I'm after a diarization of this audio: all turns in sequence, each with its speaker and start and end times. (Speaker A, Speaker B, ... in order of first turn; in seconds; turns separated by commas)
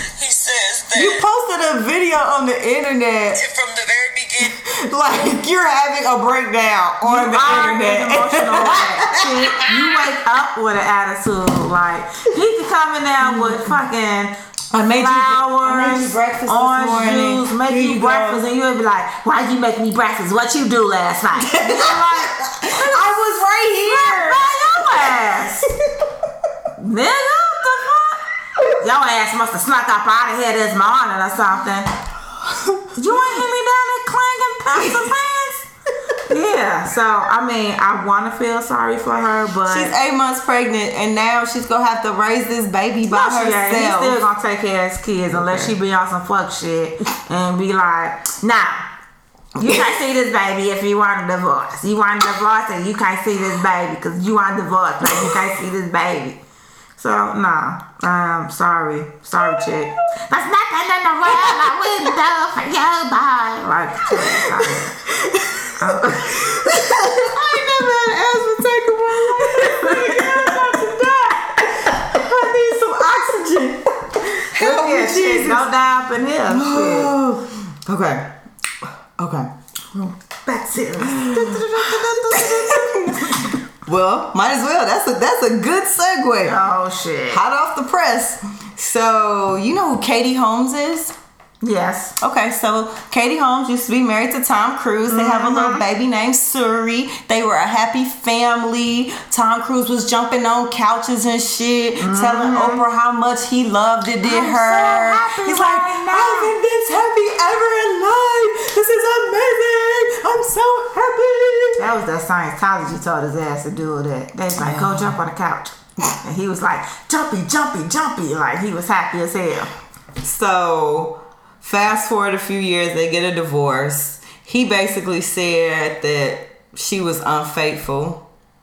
Speaker A: 0.1-1.2, Speaker B: 0.9-3.4, Speaker A: 3.3-4.6, Speaker B: 4.4-9.8, Speaker C: 7.0-14.3, Speaker B: 13.2-13.8, Speaker B: 14.7-18.4, Speaker C: 14.9-23.1, Speaker B: 21.4-25.9, Speaker C: 23.8-25.7, Speaker C: 26.8-31.9, Speaker B: 32.5-33.2, Speaker C: 32.9-35.7, Speaker B: 34.7-35.1, Speaker C: 36.3-39.9, Speaker B: 39.7-44.2, Speaker C: 43.1-48.9, Speaker B: 45.3-45.7, Speaker C: 49.6-56.4, Speaker B: 55.1-55.3, Speaker C: 57.0-65.0, Speaker B: 59.4-59.9, Speaker B: 61.3-61.8, Speaker B: 64.1-75.7, Speaker C: 65.8-67.6, Speaker C: 69.2-71.5, Speaker C: 74.5-77.1, Speaker B: 76.5-79.5, Speaker C: 79.9-83.6, Speaker B: 81.0-86.6, Speaker C: 86.4-87.4, Speaker B: 87.3-91.1, Speaker C: 91.6-92.2, Speaker B: 92.2-111.9, Speaker C: 95.1-95.8, Speaker C: 102.0-102.8, Speaker C: 104.2-106.5, Speaker C: 111.8-119.7, Speaker B: 114.5-115.2, Speaker B: 120.2-128.2